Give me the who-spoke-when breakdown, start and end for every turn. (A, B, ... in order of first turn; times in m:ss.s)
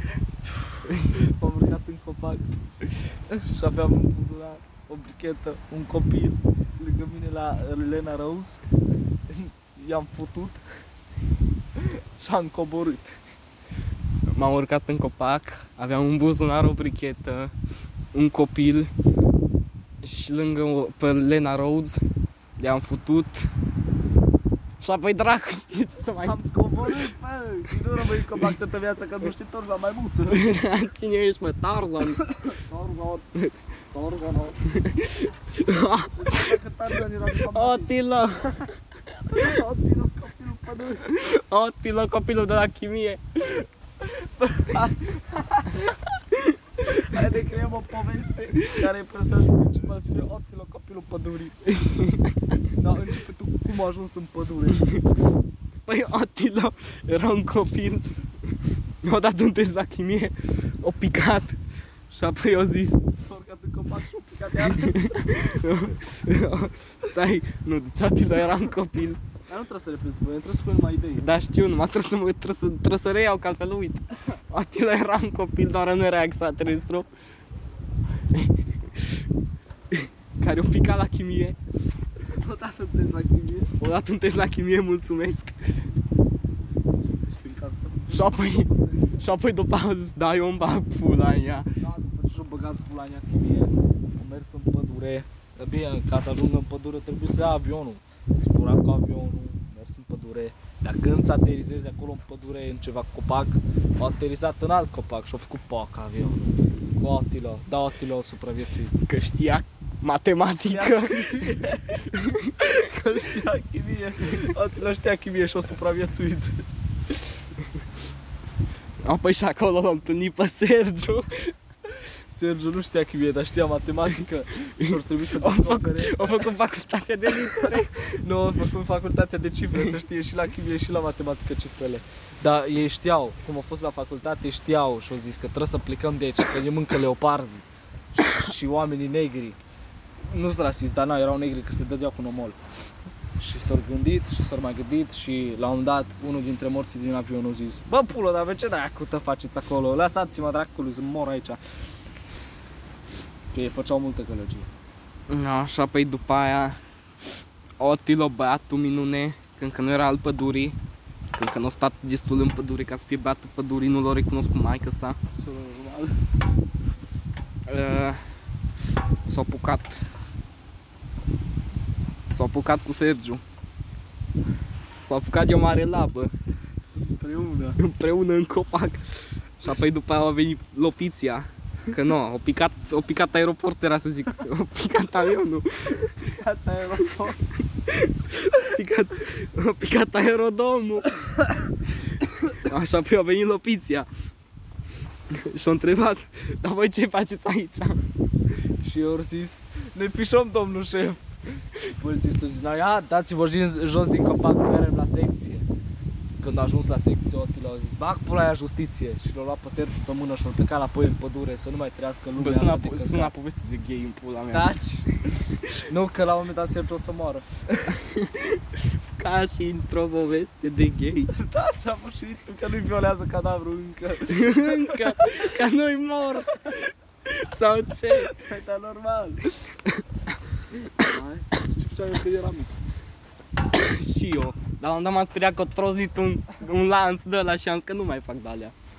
0:01.0-0:02.5 A
0:03.3-0:08.6 A
0:09.3-0:10.6 A
0:11.8-0:13.2 A
0:14.3-0:17.5 B
0:18.1-0:18.9 B
0:20.0-0:22.0 B
0:22.6-0:23.5 B
0:24.8-0:27.0 B
0:26.2-0:30.5 A
0:30.3-0:32.2 B
0:32.5-0:33.3 A
0:33.9-0:34.6 A
0:34.7-0:36.6 B
0:36.1-0:37.9 A
0:37.3-0:38.7 B
0:39.3-0:41.2 A
0:41.0-0:43.6 B
0:44.0-0:45.8 A
0:46.8-0:51.7 A
0:51.7-0:52.3 B
0:52.7-0:54.9 A
0:55.8-0:58.1 B
0:59.0-1:01.6 B
1:02.1-1:03.0 B
1:03.2-1:05.0 A
1:04.6-1:09.2 B
1:09.5-1:11.2 A
1:11.2-1:17.1 B
1:18.3-1:19.2 B
1:19.9-1:21.6 B
1:22.2-1:23.8 A
1:23.8-1:25.5 B
1:27.2-1:29.3 A
1:28.1-1:31.7 B
1:31.8-1:49.0 A
1:49.0-1:51.5 B
1:50.5-1:56.6 A
1:52.1-1:52.5 B
1:59.0-2:01.5 B
2:02.0-2:06.5 A
2:04.8-2:08.0 B
2:07.5-2:19.6 A
2:20.2-2:22.6 A
2:23.4-2:31.6 A
2:33.5-2:34.7 A
2:35.3-2:36.8 B
2:37.8-2:40.8 B
2:41.3-2:45.2 B
2:45.3-2:46.1 A
2:47.7-2:48.2 B
2:49.2-2:50.0 B
2:52.3-2:53.4 B
2:55.0-2:56.3 B
2:57.0-2:57.8 A
2:57.8-3:06.1 B
3:06.2-3:07.4 A
3:07.9-3:11.1 B
3:12.5-3:14.1 B
3:15.3-3:18.0 B
3:18.8-3:21.2 A
3:21.7-3:25.6 A
3:26.4-3:33.3 A
3:32.4-3:34.7 B
3:34.5-3:35.2 A
3:35.7-3:38.0 A
3:38.0-3:41.3 B
3:41.3-3:45.5 A
3:44.3-3:48.3 B
3:48.1-3:49.5 A
3:51.0-3:52.7 A
3:53.7-3:58.7 B